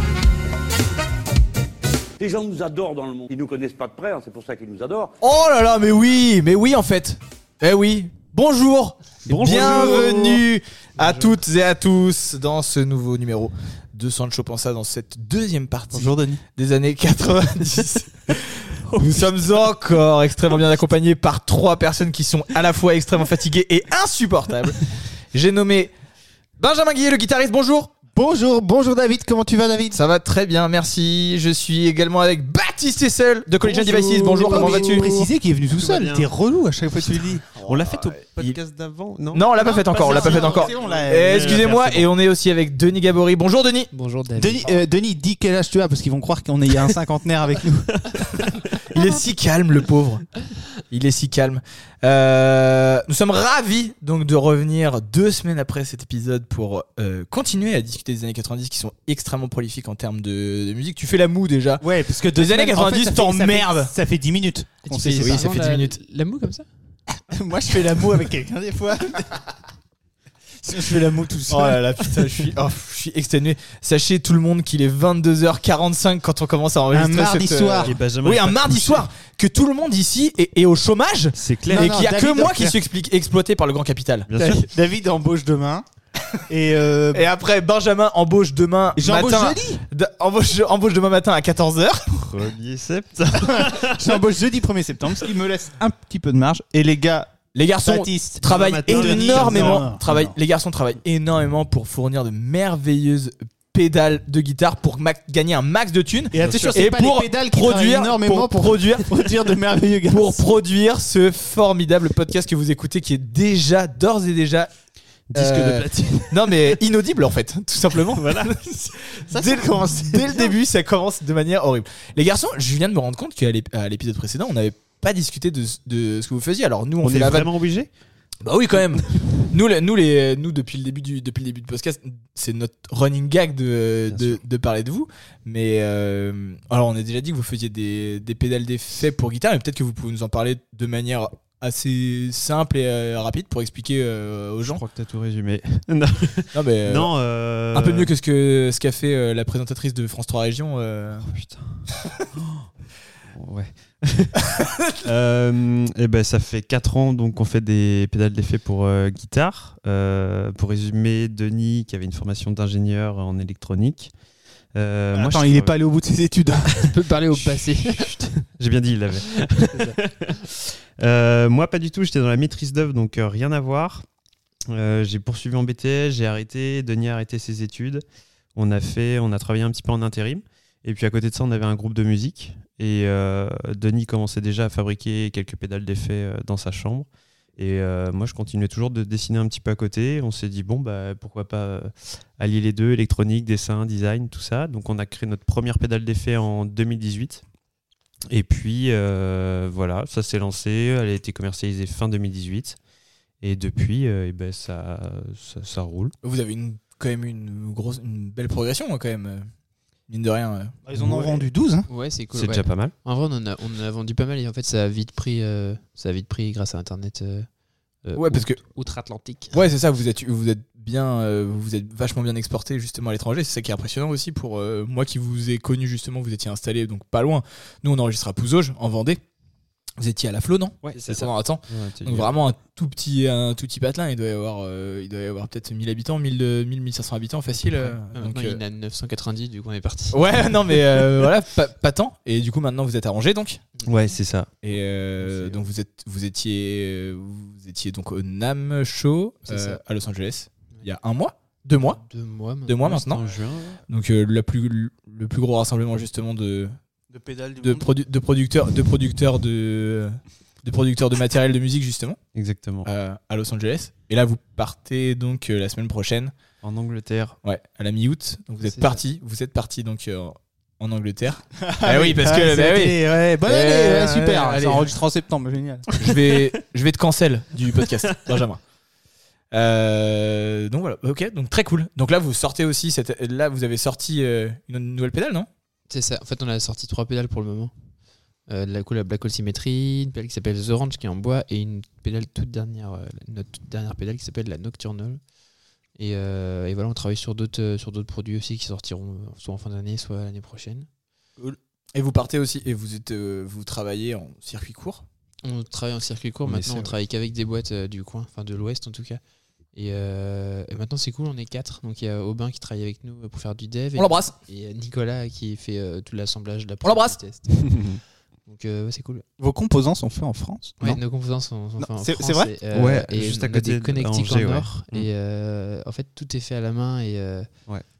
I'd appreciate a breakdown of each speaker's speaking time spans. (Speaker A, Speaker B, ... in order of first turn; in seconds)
Speaker A: 2.2-5.2
Speaker B: 5.2-25.9, 26.6-27.9, 29.9-35.1, 37.6-38.6, 39.3-43.9, 48.9-50.3, 50.9-63.9, 65.0-66.0, 71.5-84.3, 87.1-92.1, 97.5-109.3, 110.1-114.7, 115.3-127.5, 128.4-144.8, 146.5-147.1, 147.7-151.3, 206.2-209.5, 210.1-210.8, 218.1-218.6, 219.5-229.2, 230.0-238.6, 240.1-243.6, 244.6-252.0, 252.7-253.2, 253.9-256.8, 257.6-262.2, 262.8-266.3, 267.4-274.9, 275.9-278.6, 279.5-285.5, 301.4-305.0, 313.9-314.3, 316.8-317.2
Speaker C: 9.3-10.4, 18.9-19.3, 34.5-35.1, 35.8-36.3, 37.0-41.6, 77.8-79.1, 81.3-82.0, 84.3-84.7, 92.1-94.2, 98.4-99.9, 106.4-106.8, 115.3-116.2, 118.1-118.7, 127.0-127.9, 134.1-134.4, 144.7-148.1, 151.2-152.7, 153.2-164.1, 164.7-165.8, 167.7-174.1, 174.7-197.4, 198.3-202.8, 203.4-206.1, 210.9-211.4, 212.3-212.9, 230.8-232.3, 243.9-244.5, 252.8-253.8, 262.3-262.9, 266.6-267.4, 306.4-306.9, 317.7-318.0, 322.7-325.1
Speaker D: 15.9-16.4, 28.1-30.0, 33.6-37.5, 39.6-42.1, 44.4-48.5, 61.8-65.5, 67.3-69.4, 70.6-71.9, 76.9-77.9, 81.7-82.8, 84.4-85.8, 86.5-87.3, 89.0-89.8, 93.5-100.4, 106.3-110.5, 115.6-116.1, 119.3-120.5, 165.1-166.9, 210.8-211.9, 257.1-257.9, 271.6-275.9, 319.4-321.0, 321.8-322.5
Speaker E: 43.9-44.8, 64.9-66.7, 166.8-168.1, 211.9-217.5, 218.0-219.5, 238.1-240.3, 245.2-245.6, 249.5-249.8, 251.8-252.8, 268.6-269.0, 285.9-287.7, 288.5-295.2, 296.0-300.9, 305.4-309.2, 309.7-317.9, 318.5-319.2, 320.8-327.5